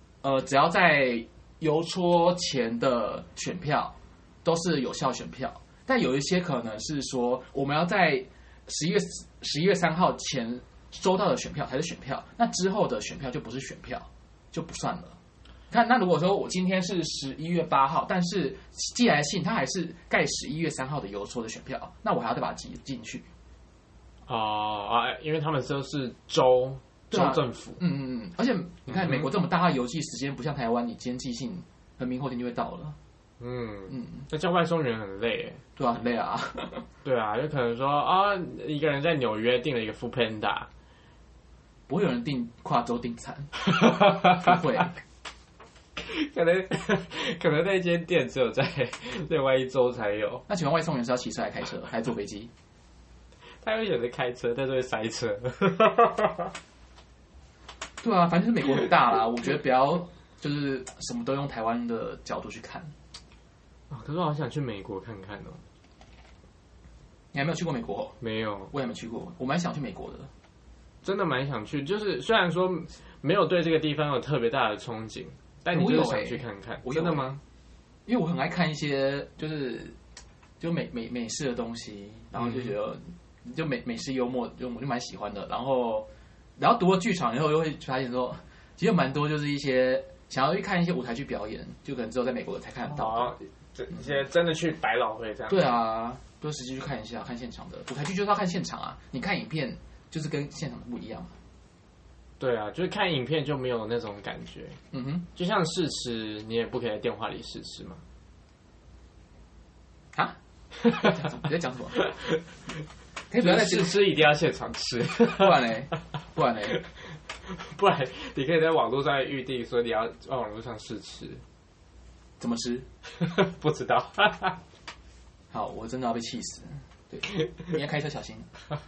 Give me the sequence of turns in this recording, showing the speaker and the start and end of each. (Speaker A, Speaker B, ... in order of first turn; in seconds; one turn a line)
Speaker A: 0.2-15.2
Speaker A: 15.7-23.3
Speaker B: 24.3-27.8
Speaker A: 27.1-33.0
Speaker B: 28.9-29.3
Speaker B: 33.4-35.6
Speaker A: 33.9-34.2
Speaker A: 35.8-36.9
Speaker B: 37.0-40.7
Speaker A: 41.9-44.9
Speaker B: 43.7-44.5
Speaker B: 46.0-50.4
Speaker A: 50.5-52.5
Speaker B: 53.6-56.5
Speaker A: 58.0-62.9
Speaker B: 63.9-65.6
Speaker A: 67.3-68.2
Speaker B: 68.2-68.7
Speaker A: 68.7-70.3
Speaker B: 71.0-77.4
Speaker A: 75.7-77.3
Speaker A: 78.0-80.0
Speaker A: 80.6-93.3
Speaker B: 82.4-82.7
Speaker B: 92.8-95.7
Speaker A: 95.5-101.3
Speaker B: 102.4-104.8
Speaker A: 104.9-105.3
Speaker B: 105.3-108.0
Speaker A: 110.9-112.0
Speaker B: 112.0-112.4
Speaker A: 113.3-114.1
Speaker B: 113.4-115.5
Speaker A: 115.2-116.8
Speaker B: 116.7-121.4
Speaker A: 122.4-122.9
Speaker B: 123.1-124.6
Speaker A: 125.5-128.5